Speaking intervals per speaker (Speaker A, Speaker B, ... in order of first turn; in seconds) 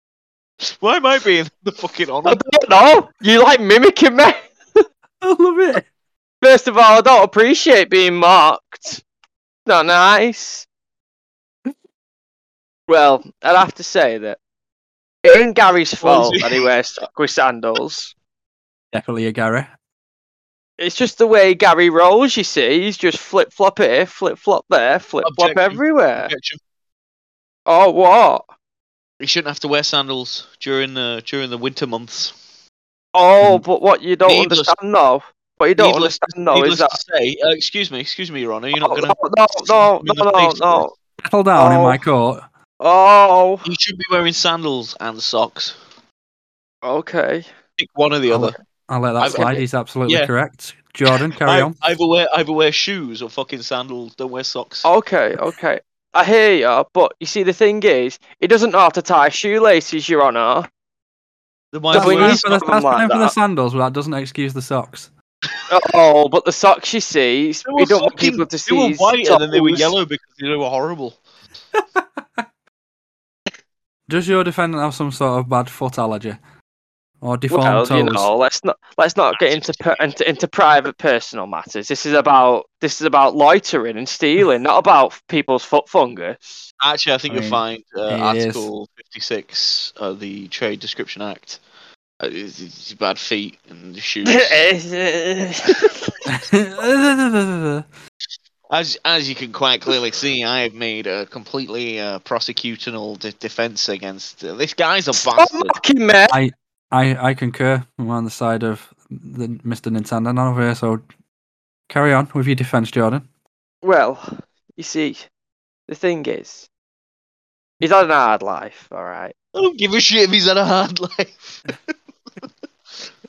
Speaker A: 0.6-2.4, 16.0-16.7, 25.2-26.6, 29.2-32.3, 34.2-34.8, 35.8-40.9, 43.6-45.8, 47.8-48.5, 49.2-50.3, 51.4-54.9, 61.7-62.4, 67.6-71.2, 79.3-80.1, 86.8-91.6, 92.2-94.6, 98.7-105.8, 119.5-121.7
Speaker B: 2.2-4.8, 6.4-9.0, 9.7-10.7, 12.9-14.4, 15.2-18.1, 20.8-26.3, 27.6-28.4, 33.1-37.0, 38.8-40.9, 41.5-42.0, 42.8-43.7, 46.8-47.5, 49.3-49.6, 54.8-60.7, 61.9-63.3, 65.7-69.9, 77.5-86.6, 94.2-96.2, 105.1-106.4, 113.8-115.3, 115.9-116.7, 117.8-119.3
Speaker C: 5.2-5.9, 18.9-19.7, 41.2-42.4, 48.3-51.8, 61.9-65.1, 74.1-76.4, 77.2-78.3, 87.3-88.7, 96.3-97.8, 106.3-111.0, 111.9-113.2